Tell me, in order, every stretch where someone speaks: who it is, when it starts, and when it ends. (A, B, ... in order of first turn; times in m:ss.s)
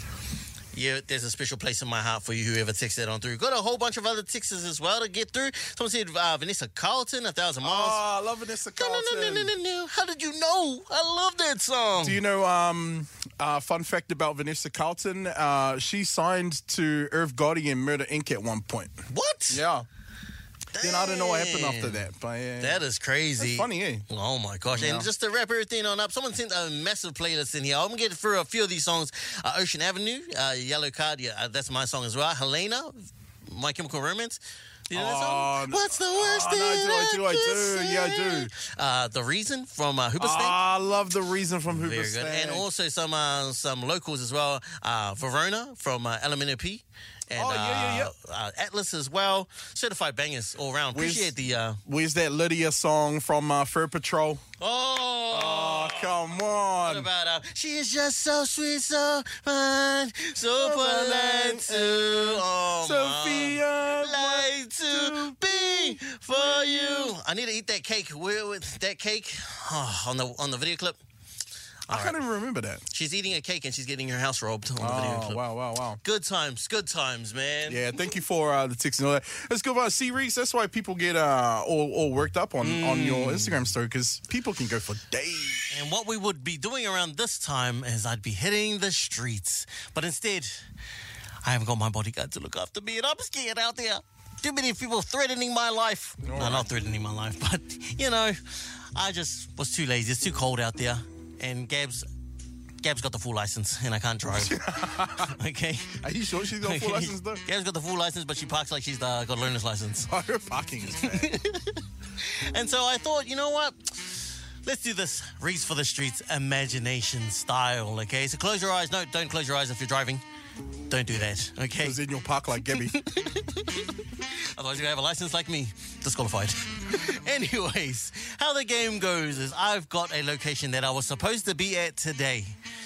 0:00.7-0:08.0 A
0:07.6-0:09.5 B
0:08.8-0:12.2 A
0:12.0-0:19.0 B
0:19.1-0:19.6 A
0:19.5-0:19.9 B
0:20.7-0:22.0 A
0:20.8-0:22.8 B
0:22.6-0:40.6 A
0:23.4-0:24.1 B
0:24.7-0:25.1 B
0:34.9-0:38.5 B
0:40.2-0:42.7 B
0:41.7-0:51.8 A
0:47.3-0:48.1 B
0:50.9-0:51.3 B
0:51.8-0:54.4 B
0:54.6-0:56.2 A
0:55.3-0:57.1 B
0:56.8-1:11.0 A
1:00.6-1:07.2 B
1:11.9-1:12.2 A
1:11.9-1:12.8 B
1:12.9-1:15.4 A
1:14.8-1:16.0 B
1:16.0-1:17.9 A
1:17.7-1:25.7 B
1:22.6-1:23.6 A
1:25.7-1:30.6 A
1:31.4-1:42.1 A
1:36.2-1:36.7 B
1:42.8-1:46.0 A
1:44.3-1:45.4 B
1:46.0-1:47.4 B
1:46.6-1:50.1 A
1:50.1-1:51.4 B
1:51.0-2:00.2 A
2:00.9-2:02.0 A
2:01.8-2:03.0 B
2:02.7-2:12.6 A